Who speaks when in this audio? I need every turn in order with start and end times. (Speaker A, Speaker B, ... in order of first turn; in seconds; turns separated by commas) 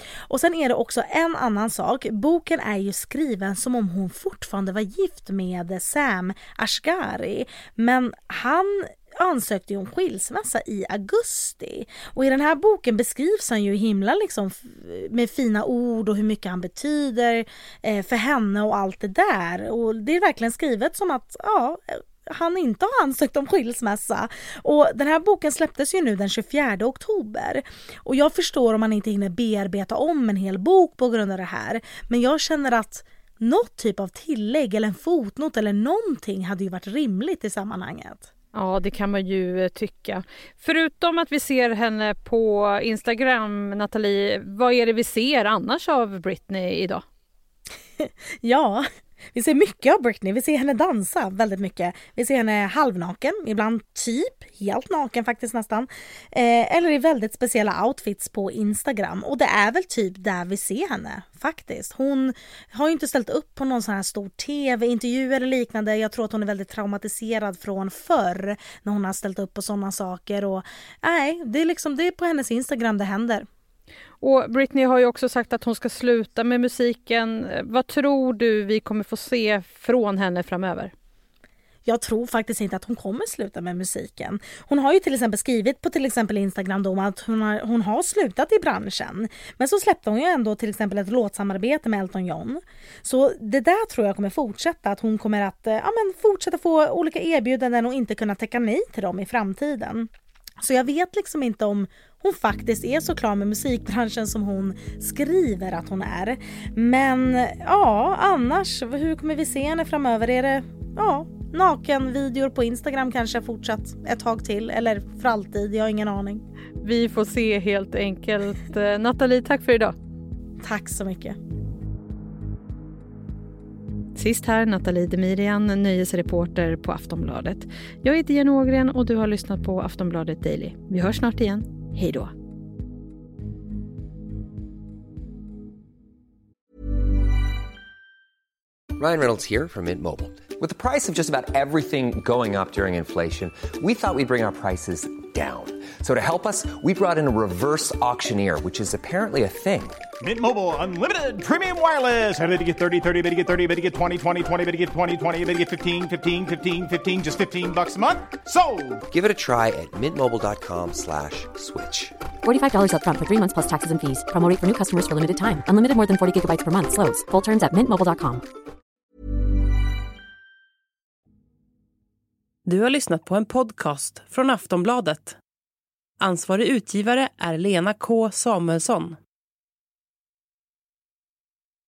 Speaker A: 0.3-38.3, Speaker B: 38.5-47.0, Speaker A: 48.0-48.8, Speaker A: 49.3-73.5, Speaker B: 74.2-80.9, Speaker A: 81.8-100.1, Speaker A: 100.6-116.4, Speaker B: 116.8-119.9, Speaker A: 120.6-121.4, Speaker B: 124.1-132.3, Speaker C: 138.9-150.0, Speaker D: 150.2-159.0, Speaker C: 159.1-162.1, Speaker E: 162.4-168.4, Speaker F: 172.7-175.4, Speaker F: 176.2-179.2